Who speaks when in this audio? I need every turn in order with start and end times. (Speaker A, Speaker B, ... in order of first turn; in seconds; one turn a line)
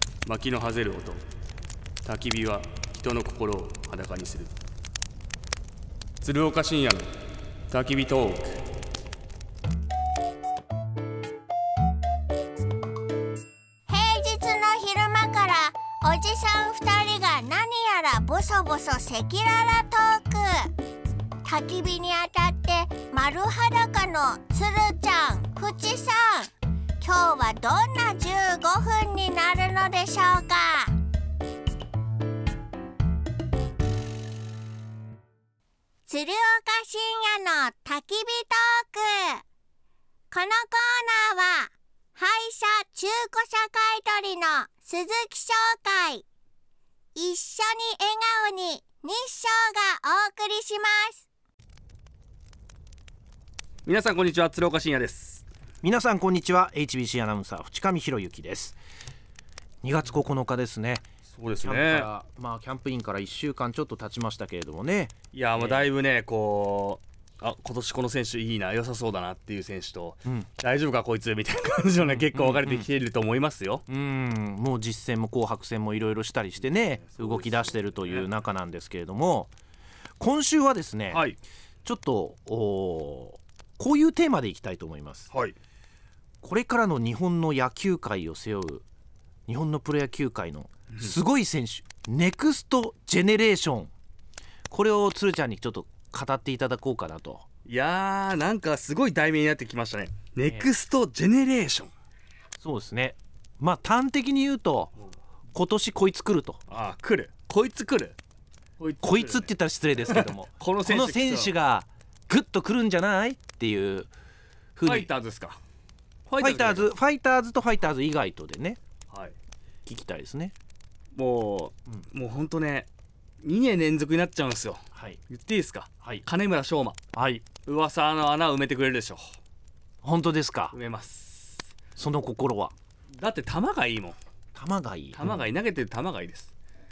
Speaker A: 0.2-1.2
Speaker A: 2.0-4.5
Speaker A: 6.2-7.1
Speaker A: 7.7-8.6
Speaker B: 13.9-20.7
Speaker B: 21.4-30.9
Speaker B: 36.1-39.4
Speaker B: 40.3-46.2
Speaker B: 47.1-51.2
Speaker A: 53.8-55.5
Speaker C: 55.8-58.8
Speaker C: 59.8-61.0
Speaker A: 61.3-62.1
Speaker C: 61.6-65.9
Speaker A: 65.3-73.8
Speaker C: 72.3-72.9
Speaker C: 73.9-79.5
Speaker A: 76.6-78.3
Speaker C: 80.2-81.2
Speaker A: 81.1-81.4
Speaker C: 81.8-85.3
Speaker A: 85.3-85.5
Speaker C: 86.4-88.8
Speaker C: 89.5-93.9
Speaker A: 90.9-91.1
Speaker C: 94.7-97.4
Speaker A: 97.7-101.9
Speaker C: 100.4-100.7
Speaker C: 102.6-104.9
Speaker C: 105.5-106.6
Speaker A: 106.7-108.2
Speaker A: 108.8-109.5
Speaker C: 109.0-114.1
Speaker A: 110.0-111.5
Speaker C: 114.8-115.1
Speaker A: 114.8-115.6
Speaker A: 116.2-116.9
Speaker C: 116.4-118.8
Speaker A: 119.1-119.3
Speaker C: 119.8-120.5
Speaker A: 121.1-122.9
Speaker A: 123.4-127.0
Speaker C: 124.9-125.2
Speaker C: 127.1-127.5
Speaker A: 127.6-129.4
Speaker C: 130.0-130.8
Speaker A: 130.7-131.7
Speaker C: 132.0-132.7
Speaker A: 133.2-134.2
Speaker C: 134.5-135.4
Speaker A: 135.1-136.5